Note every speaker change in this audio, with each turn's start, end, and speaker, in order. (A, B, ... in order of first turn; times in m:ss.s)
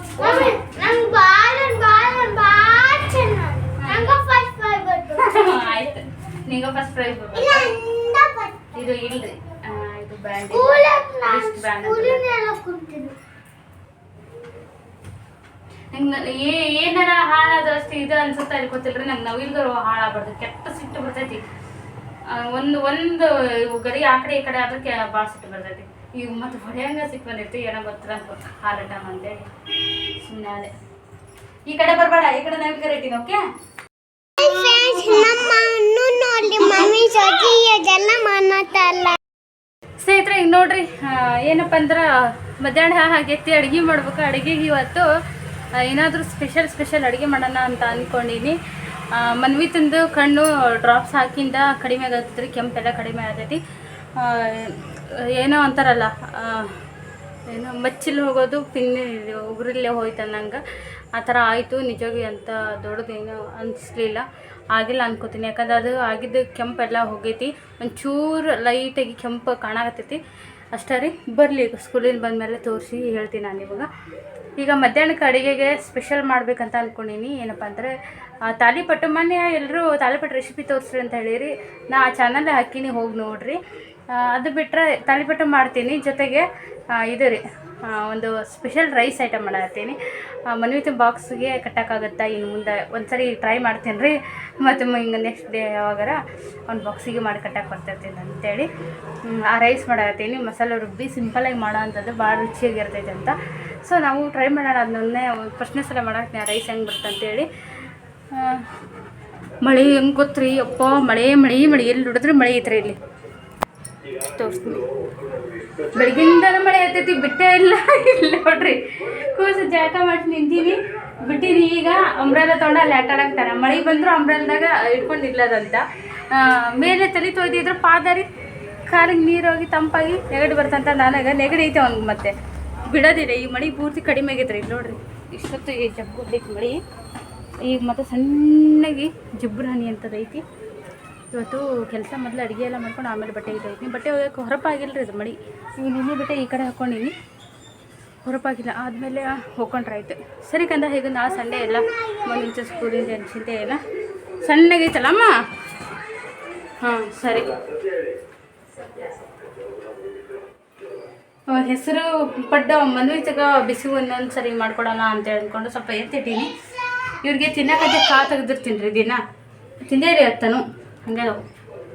0:00.2-0:05.8 A
0:00.2-0:00.6 B
0:03.8-0:04.1 B
0:05.2-0:07.7 B
0:07.3-0:08.7 A
0:08.7-0:12.3 B
0:10.5-0:13.2 A
0:15.9-0:21.4 B
0:22.3-0:29.5 B
0:30.2-0:30.7 B
0:31.7-0:33.4 B
0:34.4-0:39.2 A
0:34.7-0:35.4 B
0:36.6-0:36.9 B
0:40.0-0:45.1 B
0:45.8-0:48.6 B
0:49.1-0:53.6 B
0:54.2-0:56.7 B
0:57.5-1:00.6 B
1:01.1-1:10.2 B
1:10.7-1:13.9 B
1:14.6-1:17.9 B
1:18.4-1:23.6 B
1:24.1-1:38.7 B
1:39.2-1:47.5 B
1:48.3-1:48.6 B
1:49.6-1:53.0 B
1:54.3-1:54.8 B
1:55.9-2:08.3 B
2:08.9-2:12.3 B
2:12.9-2:16.8 B
2:17.6-2:20.4 B
2:21.3-2:27.1 B
2:28.2-2:33.8 B
2:31.3-2:33.1 A
2:34.4-2:35.3 B
2:36.8-2:37.5 B
2:41.5-2:46.5 B
2:47.2-2:49.2 B
2:49.9-2:51.4 B